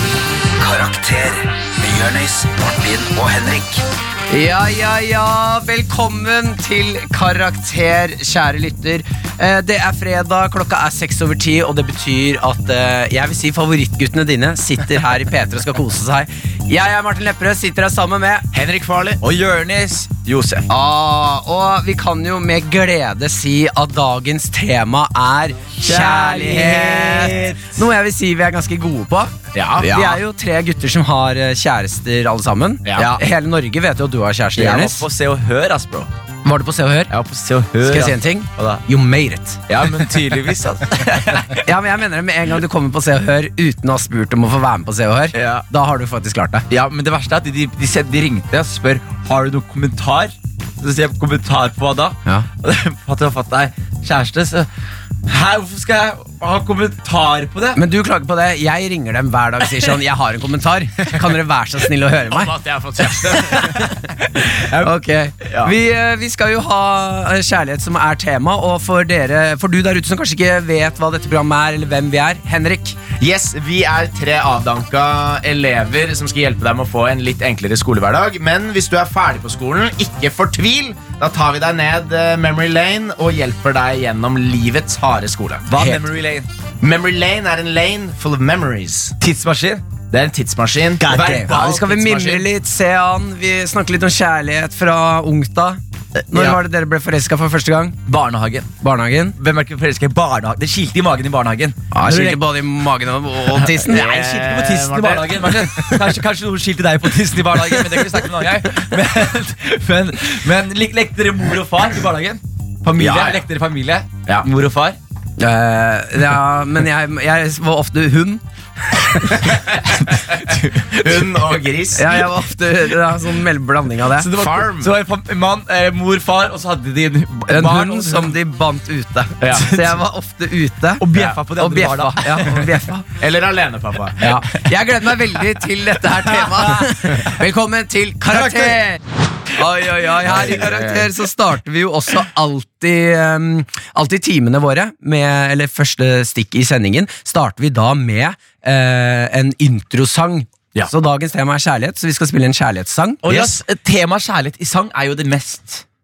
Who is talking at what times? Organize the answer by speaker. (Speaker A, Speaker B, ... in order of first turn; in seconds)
Speaker A: 0.6-3.8
Speaker B: 4.3-18.4, 20.7-35.0, 36.4-37.1, 37.8-39.6, 41.5-46.6, 57.8-62.5, 63.3-73.0, 91.5-98.0, 98.8-99.3, 101.9-104.1, 115.4-119.5, 121.9-124.3, 127.5-133.1, 134.2-139.0, 139.5-153.3
Speaker C: 18.5-19.2, 29.5-29.9, 32.8-33.1, 62.3-63.9, 73.2-85.7, 86.8-89.2, 90.1-92.5, 103.8-106.0, 113.0-113.4, 119.5-119.8, 121.0-122.2, 124.3-124.9, 129.4-129.7, 133.2-134.3, 140.3-141.1
Speaker D: 19.2-20.7, 25.8-27.8, 29.9-30.2, 33.0-33.2, 34.5-36.1, 37.1-38.8, 39.7-41.6, 45.3-45.6, 46.7-54.7, 55.2-57.8, 64.5-64.9, 65.5-65.7, 85.7-86.5, 89.2-89.8, 91.0-91.6, 98.0-98.7, 99.4-102.4, 103.8-115.0, 119.8-121.5, 124.2-128.3, 129.5-130.0, 131.0-132.8, 136.2-137.3, 138.3-138.8, 140.2-140.8, 153.2-155.8